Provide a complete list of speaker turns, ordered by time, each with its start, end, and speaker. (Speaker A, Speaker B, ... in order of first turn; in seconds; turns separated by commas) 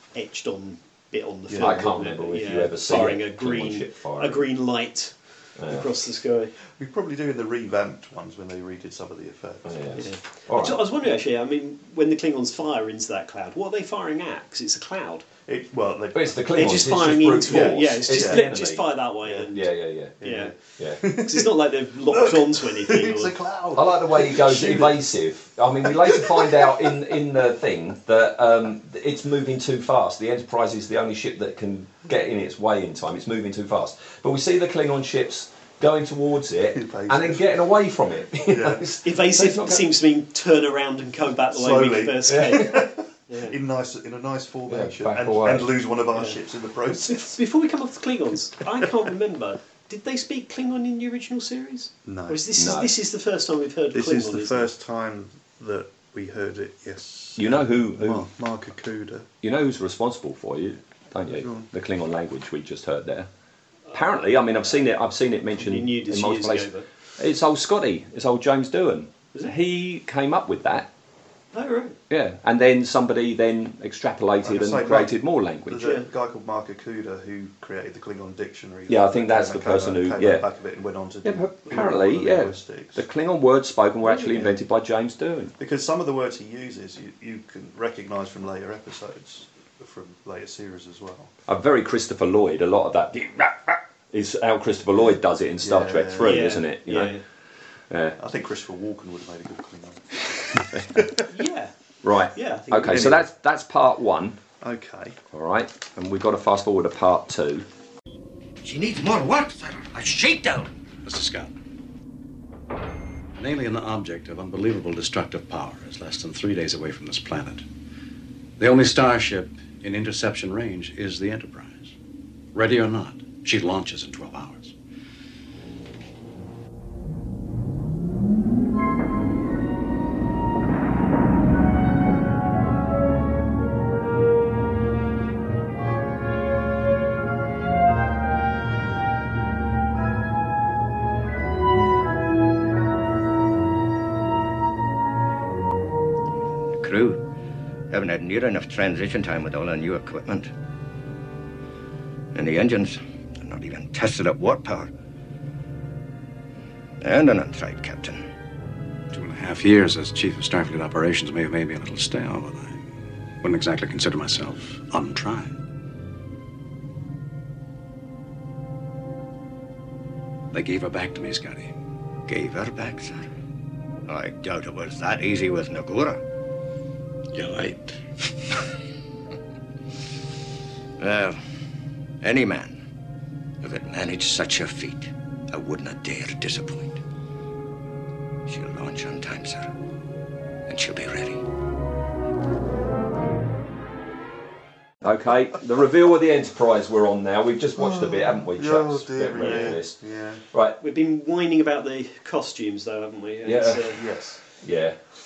Speaker A: 0.1-6.5, Speaker B: 1.5-1.9, Speaker C: 1.6-4.5, Speaker C: 5.6-5.9, Speaker B: 6.7-10.1, Speaker C: 9.6-10.9, Speaker A: 10.0-15.3, Speaker B: 15.5-16.9, Speaker C: 16.1-18.8, Speaker A: 16.5-20.5, Speaker B: 17.4-18.5, Speaker B: 19.2-19.5, Speaker C: 19.5-21.0, Speaker B: 20.2-21.5, Speaker A: 21.1-23.3, Speaker B: 22.1-25.0, Speaker C: 23.7-39.8, Speaker B: 25.8-27.0, Speaker B: 36.7-37.6, Speaker B: 38.4-39.0, Speaker A: 39.0-43.5, Speaker B: 41.5-47.4, Speaker C: 42.3-42.8, Speaker C: 44.7-45.7, Speaker A: 47.1-54.7, Speaker B: 52.0-52.5, Speaker C: 52.6-52.9, Speaker B: 53.9-59.3, Speaker C: 57.4-58.3, Speaker C: 59.4-63.3, Speaker B: 61.3-61.7, Speaker A: 63.9-64.8, Speaker C: 63.9-70.9, Speaker A: 65.5-66.9, Speaker A: 71.5-72.0, Speaker C: 72.1-76.0, Speaker B: 74.4-83.0, Speaker A: 75.8-76.0, Speaker C: 78.9-80.4, Speaker C: 81.2-85.5, Speaker B: 84.0-84.6, Speaker B: 85.6-91.3, Speaker C: 91.5-97.1, Speaker B: 95.6-96.6, Speaker A: 96.2-97.2, Speaker C: 97.9-98.2, Speaker B: 98.2-101.2, Speaker C: 100.7-101.0, Speaker A: 101.3-101.7, Speaker C: 102.0-104.4, Speaker A: 102.3-103.2, Speaker B: 102.9-103.2, Speaker B: 104.6-105.2, Speaker C: 105.3-107.7, Speaker D: 108.6-110.7, Speaker E: 111.0-111.5, Speaker E: 113.3-117.7, Speaker E: 118.6-122.0, Speaker E: 122.5-124.7, Speaker D: 146.7-147.2, Speaker D: 147.9-150.5, Speaker D: 152.3-154.9, Speaker D: 157.0-158.2, Speaker E: 159.1-162.8, Speaker E: 163.4-165.6, Speaker E: 170.5-171.7, Speaker D: 172.3-173.3, Speaker D: 174.1-176.2, Speaker D: 177.3-178.7, Speaker D: 181.0-181.4, Speaker D: 182.2-182.8, Speaker D: 183.6-187.0, Speaker D: 188.5-189.7, Speaker D: 190.7-191.4, Speaker C: 195.0-200.0, Speaker B: 197.8-200.4, Speaker C: 200.5-200.8, Speaker A: 200.8-204.0, Speaker C: 203.4-203.9, Speaker B: 203.8-204.4, Speaker C: 204.6-205.0